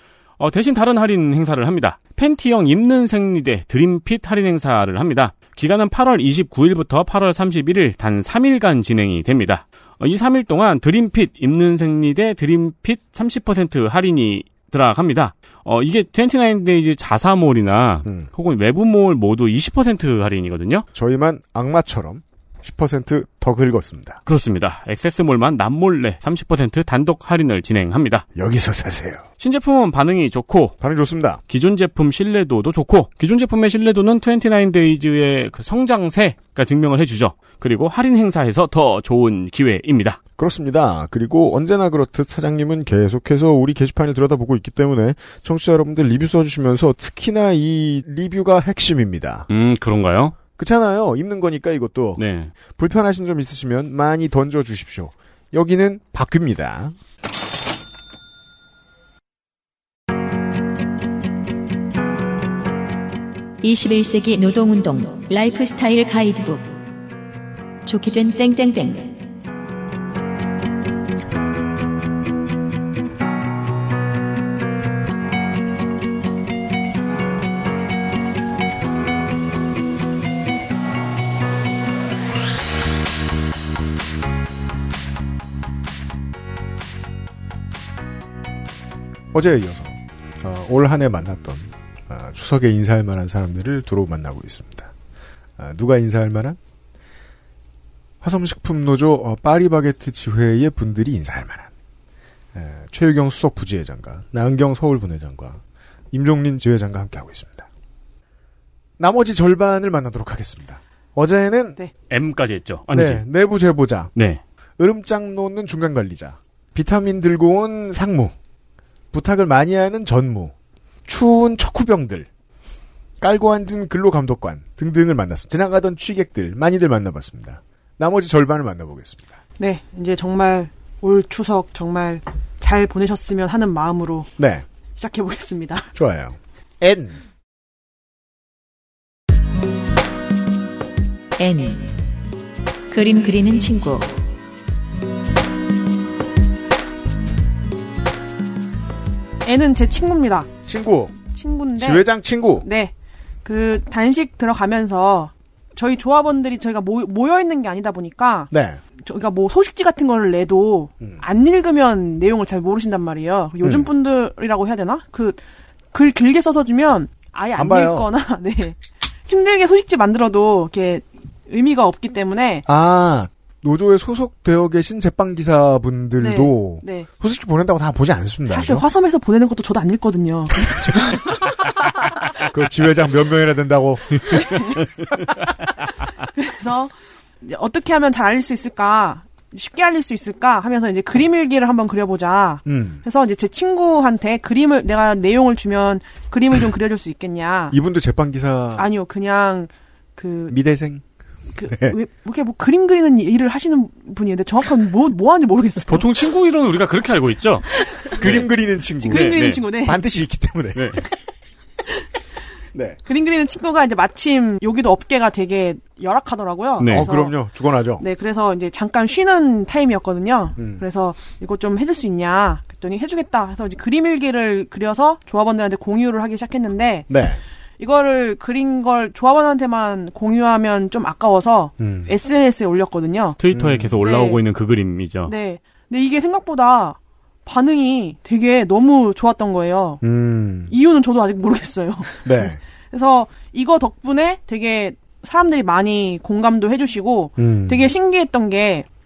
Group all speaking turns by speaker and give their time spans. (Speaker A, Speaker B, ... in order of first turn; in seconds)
Speaker A: 0.4-20.9, 24.3-28.2, 29.4-30.8, 31.5-40.2, 49.5-50.4, 52.2-52.5, 112.1-113.2, 114.2-114.4, 205.9-208.5, 209.1-209.6, 216.8-217.1, 233.4-235.3
Speaker B: 20.9-24.2, 28.3-29.2, 30.8-31.4, 40.4-49.5, 50.6-57.0, 89.3-94.9, 95.6-96.6, 98.2-101.7, 102.5-105.6, 106.1-107.7, 109.0-111.8, 112.9-114.1, 114.8-118.3, 119.1-120.5, 121.0-122.3, 123.2-129.4, 134.4-134.7, 135.9-137.2, 150.7-151.1, 151.8-152.7, 158.5-158.8, 163.6-163.9, 167.6-168.1, 172.7-178.8, 182.3-184.6, 192.6-193.0, 197.7-198.9, 200.5-201.0, 201.7-202.0, 208.2-211.0, 216.9-218.0, 220.6-220.8, 227.1-227.4, 231.8-232.1, 233.5-233.9, 240.0-240.7, 242.2-242.6, 247.4-247.9
Speaker C: 63.6-66.8, 67.8-69.2, 141.4-142.0, 142.9-144.1
Speaker D: 129.6-134.3, 135.0-135.9, 149.4-150.5, 151.3-152.1, 152.6-152.9, 153.4-158.5, 159.0-165.4, 165.9-172.6, 176.2-177.1, 178.5-181.1, 184.4-184.8, 186.2-197.8, 198.8-200.6, 201.6-206.1, 209.0-210.0, 213.1-217.3, 218.0-227.1, 227.8-233.4, 234.0-234.4, 235.2-240.0, 240.7-242.2, 242.9-248.8